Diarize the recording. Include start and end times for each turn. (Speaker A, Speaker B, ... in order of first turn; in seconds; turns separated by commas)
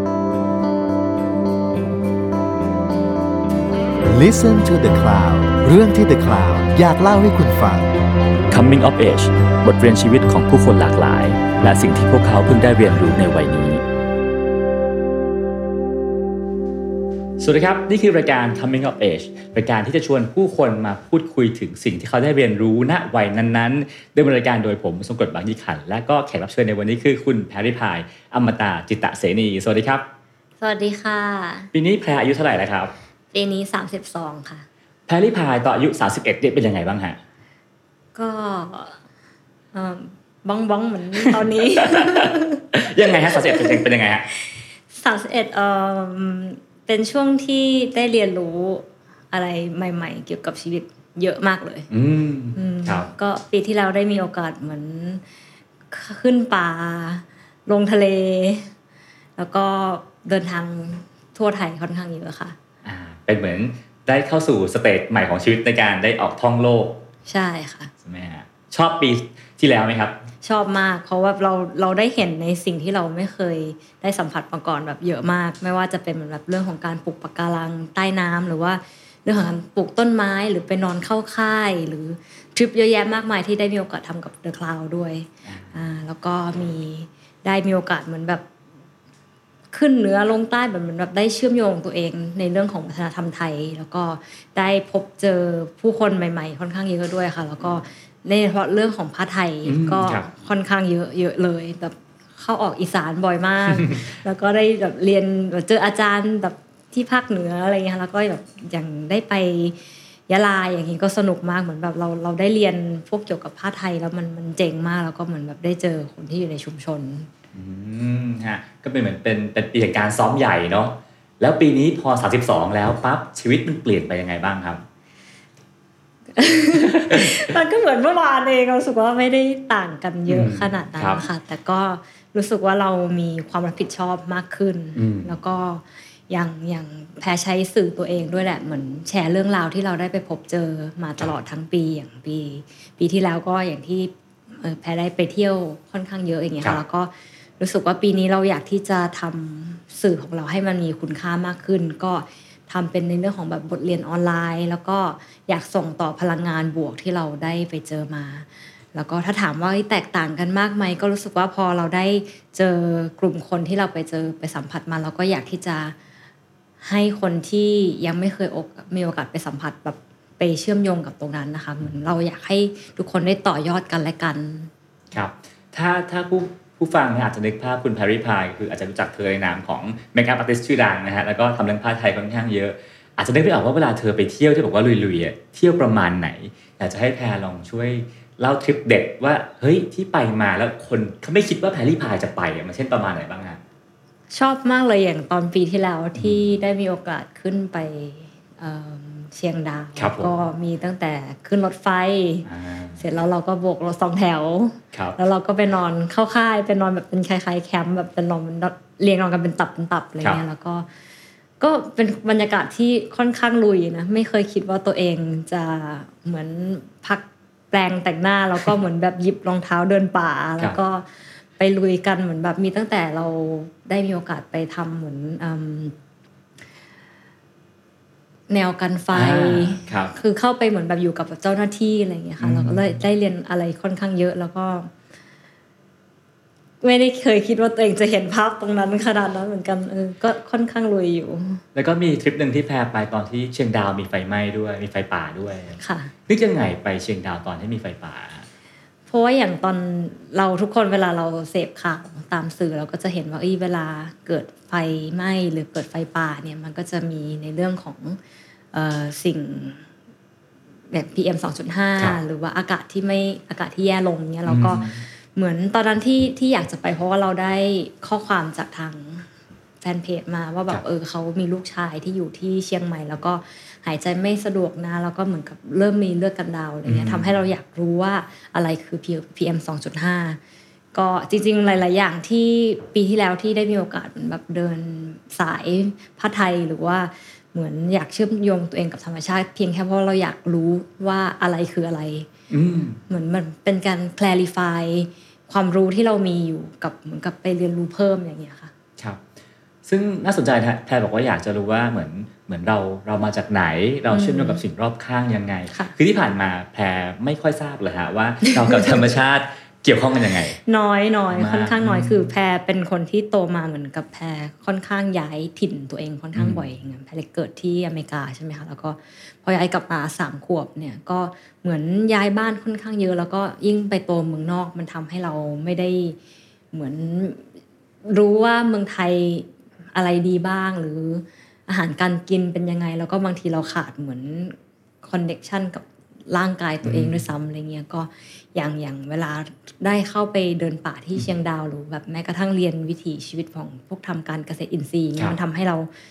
Speaker A: 4.0-8.0, Speaker B: 8.5-13.8, Speaker B: 17.4-30.1, Speaker C: 30.6-31.7, Speaker B: 31.7-32.9, Speaker C: 33.3-34.6, Speaker B: 35.1-37.2, Speaker C: 38.1-39.0, Speaker C: 39.7-43.8, Speaker B: 41.4-44.3, Speaker C: 44.9-51.9, Speaker B: 51.9-53.1, Speaker C: 52.5-55.2, Speaker C: 55.9-58.7, Speaker C: 59.4-62.5, Speaker B: 62.8-67.0, Speaker C: 67.3-67.9, Speaker B: 68.0-70.2, Speaker C: 70.4-88.4, Speaker B: 85.5-85.7, Speaker C: 89.7-109.8, Speaker B: 99.7-100.3, Speaker C: 110.3-117.3, Speaker B: 117.5-124.8, Speaker C: 126.3-165.9, Speaker B: 126.8-127.5, Speaker B: 130.3-131.2, Speaker B: 134.9-135.3, Speaker C: 166.8-174.7, Speaker B: 175.1-193.6, Speaker C: 194.3-202.5, Speaker B: 200.0-200.3, Speaker B: 202.4-203.0, Speaker C: 203.0-210.9, Speaker C: 211.6-225.9, Speaker C: 228.5-234.9, Speaker B: 229.1-230.1, Speaker B: 232.4-232.9, Speaker C: 236.8-241.6, Speaker B: 241.7-248.4, Speaker C: 245.8-246.1, Speaker C: 249.1-258.2, Speaker C: 258.7-259.8, Speaker C: 260.9-269.3, Speaker B: 264.5-265.0, Speaker C: 269.8-280.4, Speaker B: 276.9-277.4, Speaker C: 280.9-292.3, Speaker B: 292.5-293.0, Speaker C: 293.1-298.7, Speaker B: 299.0-299.2, Speaker B: 299.8-310.6, Speaker C: 304.1-304.6, Speaker C: 308.4-309.0, Speaker C: 310.6-326.2, Speaker B: 311.3-312.3, Speaker B: 316.3-316.6, Speaker C: 326.7-327.4, Speaker C: 328.1-345.9, Speaker B: 336.8-337.2